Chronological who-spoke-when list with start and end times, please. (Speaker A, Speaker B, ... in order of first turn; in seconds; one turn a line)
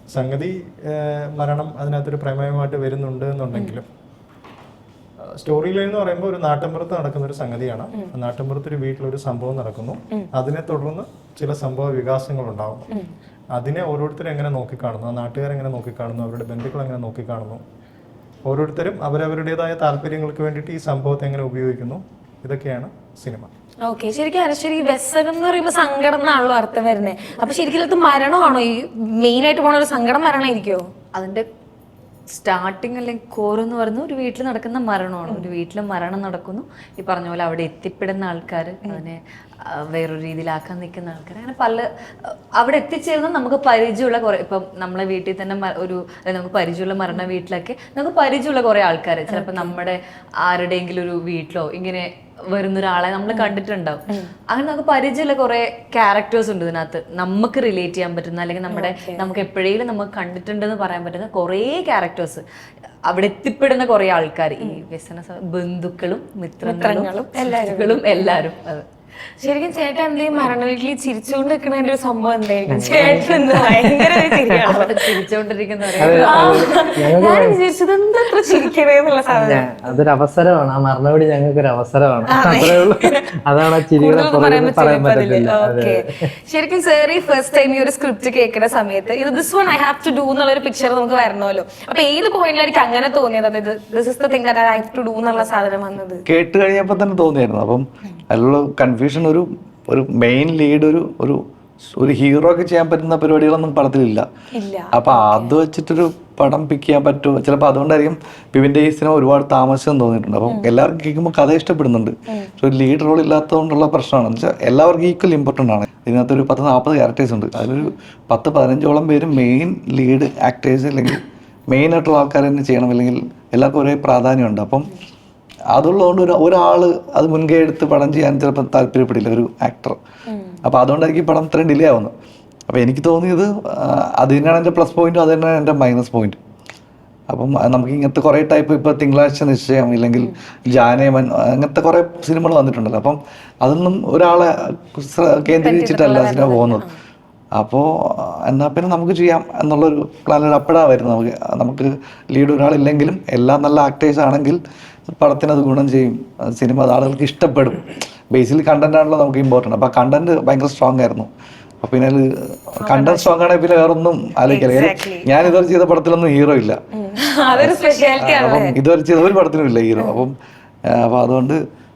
Speaker A: 0.1-3.8
Speaker A: 5.4-12.9
Speaker A: 13.5-17.6
Speaker A: 18.4-23.5
Speaker B: 23.9-30.9
Speaker C: 31.1-31.4
Speaker C: 32.3-62.4
Speaker B: 35.2-35.5
Speaker B: 47.1-47.3
Speaker B: 49.3-49.7
Speaker B: 53.3-53.5
Speaker B: 58.7-59.3
Speaker C: 63.1-68.8
Speaker B: 66.6-68.3
Speaker B: 69.4-75.2
Speaker D: 72.7-74.8
Speaker C: 74.7-77.0
Speaker D: 76.0-77.6
Speaker B: 76.1-79.7
Speaker D: 79.3-86.3
Speaker B: 82.3-83.3
Speaker B: 83.9-96.2
Speaker E: 96.3-101.4
Speaker E: 101.9-104.2
Speaker B: 104.5-105.0
Speaker E: 104.9-124.9
Speaker C: 105.1-105.6
Speaker E: 125.7-130.0
Speaker B: 130.3-130.6
Speaker E: 130.6-132.1
Speaker E: 132.7-136.4
Speaker E: 137.3-146.8
Speaker C: 145.5-146.8
Speaker E: 147.6-161.3
Speaker E: 161.8-166.8
Speaker B: 162.8-163.3
Speaker B: 164.5-165.3
Speaker B: 166.9-168.7
Speaker E: 167.5-170.3
Speaker B: 170.0-170.2
Speaker E: 170.9-171.6